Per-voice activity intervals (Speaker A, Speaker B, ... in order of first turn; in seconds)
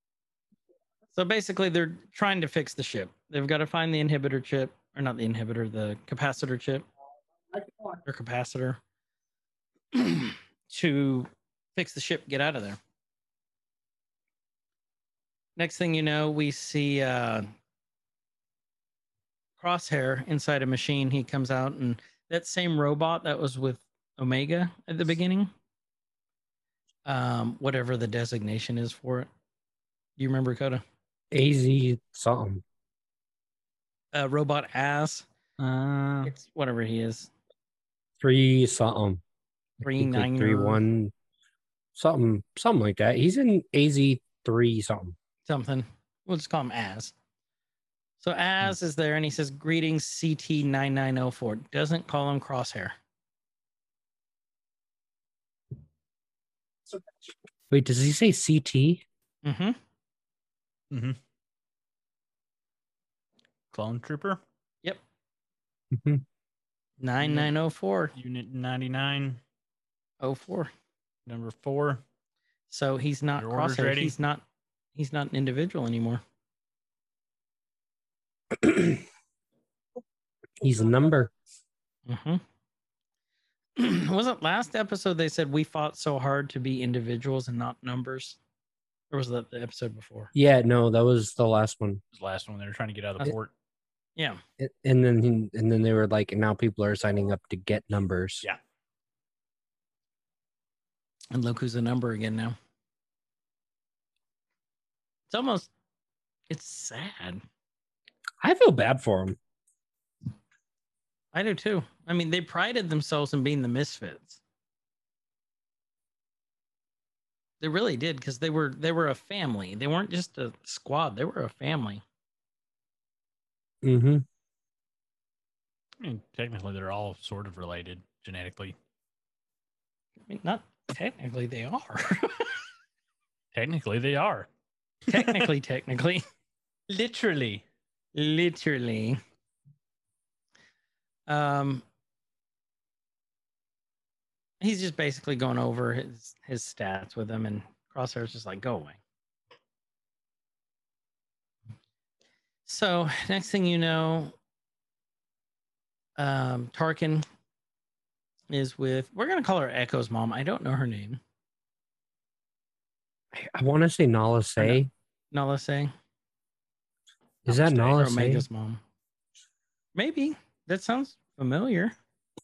Speaker A: 1.1-6.9, 7.9-8.8, 9.9-12.8, 15.6-17.5, 19.6-25.5, 27.1-29.3, 30.2-30.8, 34.1-35.3, 36.3-37.3, 39.8-40.8, 45.5-47.1, 48.2-53.0, 59.4-59.8, 67.0-68.1, 70.2-70.7, 72.7-74.4, 75.0-76.2, 82.1-82.4, 83.8-88.4, 89.1-90.3, 101.3-102.6, 105.3-105.7, 106.5-107.4, 111.3-114.4, 117.6-122.0, 130.3-132.7, 135.1-136.2, 138.2-139.2, 141.3-141.8, 144.6-149.0, 152.7-154.3, 156.2-157.2, 158.5-161.2, 164.6-165.9, 167.8-168.8, 169.9-171.9
Speaker B: 31.3-32.6, 38.2-39.2, 39.8-41.1, 42.0-45.1, 57.7-59.0, 65.9-66.2, 78.5-79.0, 80.6-81.3, 90.3-92.0, 94.6-98.5, 108.4-109.4, 123.8-124.2, 163.3-164.9, 167.4-168.5
Speaker C: 35.6-36.3, 60.9-61.2, 63.7-64.4, 67.2-67.5, 68.2-69.4, 71.3-72.0, 73.4-74.1, 92.1-93.5, 126.0-128.8, 133.5-134.5, 135.1-135.5, 136.9-137.6, 167.5-167.9